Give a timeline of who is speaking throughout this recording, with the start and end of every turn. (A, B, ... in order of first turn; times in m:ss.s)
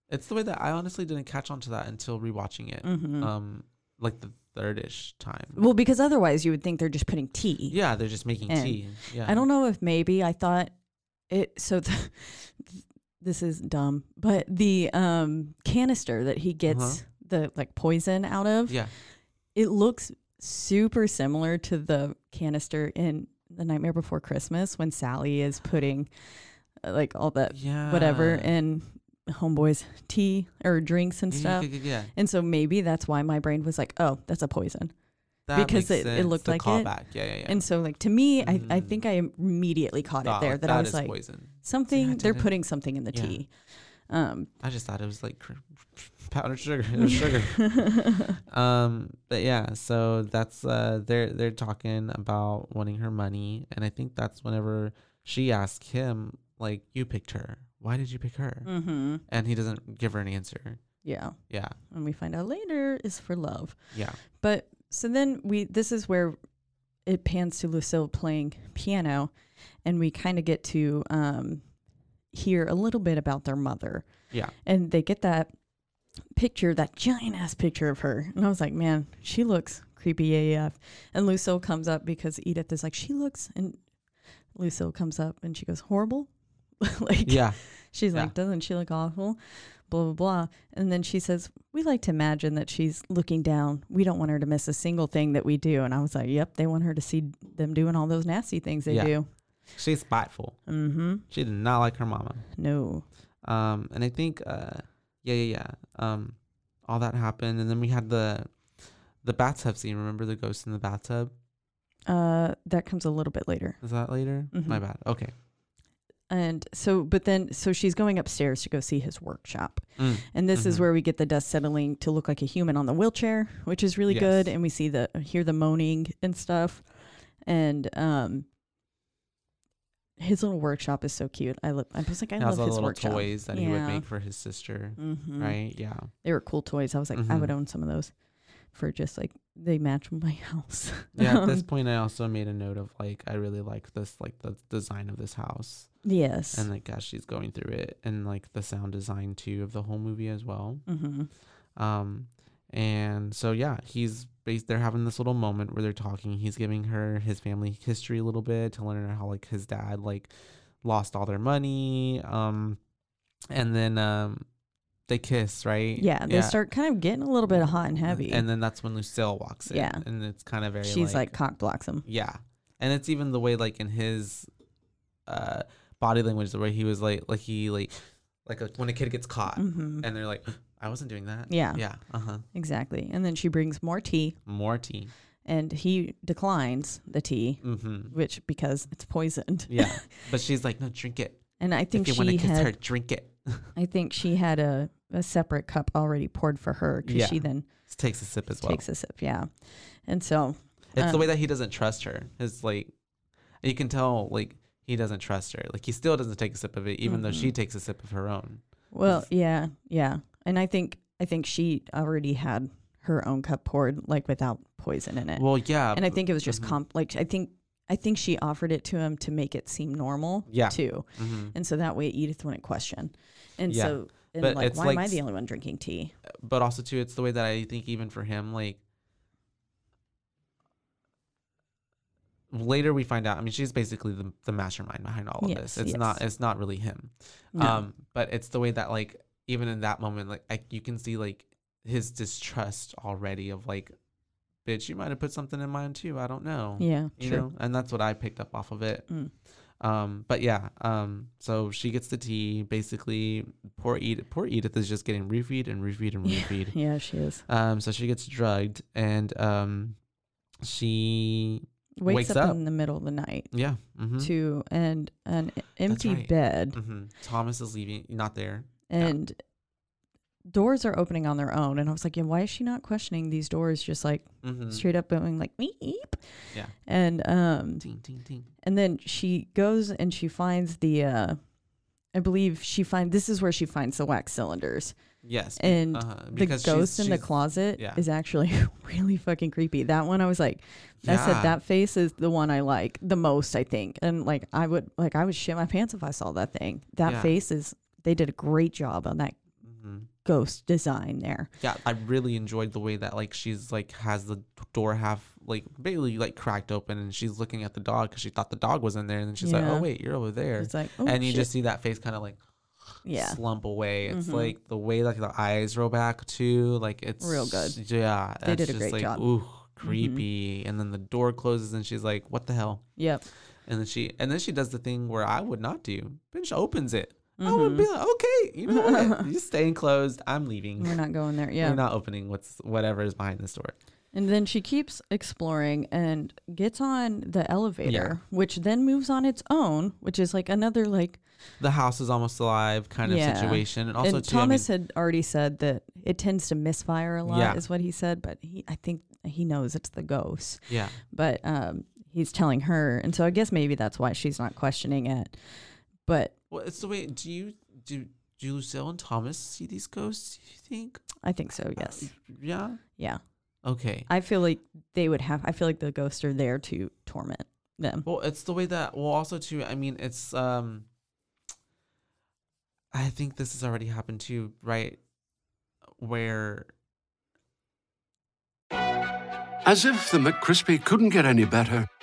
0:00.1-0:05.6 A
0:02.8-0:03.3 B
0:05.6-0:07.8 B
0:07.7-0:09.4 A
0:08.5-0:10.7 B
0:11.3-0:18.8 B
0:16.7-0:17.0 A
0:18.7-0:18.9 A
0:19.6-0:26.1 B
0:26.8-0:34.9 B
0:27.5-0:28.5 A
0:31.3-0:32.1 A
0:35.5-0:37.6 A
0:35.5-0:43.5 B
0:38.4-0:39.0 A
0:40.2-0:42.5 A
0:43.1-0:43.4 A
0:44.1-0:44.5 B
0:44.6-0:58.7 A
0:47.7-0:48.4 B
0:58.7-0:59.2 B
0:59.3-1:00.8 A
1:01.0-1:01.4 B
1:01.5-1:01.8 A
1:01.9-1:06.4 B
1:03.9-1:04.2 A
1:07.1-1:09.3 B
1:09.8-1:11.6 B
1:12.3-1:14.1 B
1:14.6-1:15.5 B
1:16.4-1:23.8 B
1:24.6-1:26.3 B
1:26.8-1:39.3 B
1:27.3-1:27.6 A
1:38.9-1:39.1 A
1:39.8-1:40.6 A
1:40.7-1:41.2 B
1:41.3-1:42.4 A
1:42.6-1:43.0 B
1:43.4-1:48.5 A
1:49.2-1:51.3 A
1:52.1-1:53.8 B
1:53.8-1:55.3 A
1:54.5-1:54.8 B
1:56.3-2:06.9 B
2:00.0-2:00.8 A
2:04.1-2:04.5 A
2:07.5-2:08.5 B
2:10.2-2:14.0 B
2:12.4-2:16.1 A
2:15.0-2:15.6 B
2:16.2-2:18.1 B
2:17.1-2:17.5 A
2:18.7-2:21.6 B
2:21.2-2:25.9 A
2:26.0-2:26.7 B
2:26.5-2:30.8 A
2:30.9-2:31.3 B
2:31.8-2:40.3 A
2:40.8-2:42.8 A
2:43.5-2:44.5 A
2:45.1-2:46.6 A
2:46.0-2:48.4 B
2:48.1-2:51.4 A
2:49.7-2:50.0 B
2:50.8-2:52.0 B
2:52.0-2:54.5 A
2:55.3-2:57.9 A
2:58.5-3:02.4 A
2:59.6-3:00.1 B
3:01.5-3:01.8 B
3:02.5-3:04.4 B
3:04.5-3:05.1 A
3:05.5-3:10.2 B
3:07.6-3:08.2 A
3:09.7-3:13.7 A
3:11.6-3:12.8 B
3:13.8-3:17.7 B
3:17.0-3:18.9 A
3:18.6-3:21.3 B
3:21.0-3:22.9 A
3:23.6-3:29.3 A
3:27.0-3:27.5 B
3:28.9-3:46.2 B
3:35.4-3:36.8 A
3:40.5-3:41.6 A
3:43.7-3:45.2 A
3:46.3-3:48.8 A
3:52.5-4:03.9 A
3:55.4-3:56.2 B
3:57.5-3:57.8 B
4:04.6-4:09.1 A
4:06.8-4:07.5 B
4:09.8-4:16.8 A
4:16.2-4:17.4 B
4:17.5-4:20.0 A
4:20.6-4:22.6 A
4:22.0-4:23.5 B
4:23.5-4:24.3 A
4:24.2-4:26.8 B
4:25.9-4:29.1 A
4:28.9-4:29.4 B
4:30.5-4:36.2 B
4:34.4-4:34.8 A
4:36.8-4:37.8 B
4:37.8-4:38.5 A
4:38.6-4:41.4 B
4:42.1-4:45.0 B
4:45.2-4:48.0 A
4:45.6-4:59.4 B
4:51.0-4:51.6 A
4:57.0-4:57.4 A
4:59.6-5:00.1 A
5:00.2-5:01.5 B
5:01.6-5:12.4 A
5:09.4-5:09.9 B
5:10.6-5:11.5 B
5:13.0-5:13.4 B
5:13.1-5:22.8 A
5:14.1-5:14.5 B
5:17.2-5:17.8 B
5:18.4-5:19.2 B
5:19.8-5:20.2 B
5:23.0-5:23.2 B
5:23.7-5:31.0 A
5:27.4-5:27.9 B
5:28.7-5:29.3 B
5:30.8-5:31.8 B
5:31.6-5:33.8 A
5:34.1-5:41.2 B
5:37.8-5:38.2 A
5:41.6-5:44.7 A
5:43.0-5:56.3 B
5:47.2-5:47.6 A
5:50.7-5:51.0 A
5:56.5-6:01.0 A
6:01.2-6:02.1 B
6:01.8-6:02.8 A
6:03.6-6:04.1 A
6:04.1-6:08.1 B
6:08.0-6:10.9 A
6:12.9-6:15.0 A
6:16.0-6:16.7 A
6:19.6-6:21.9 C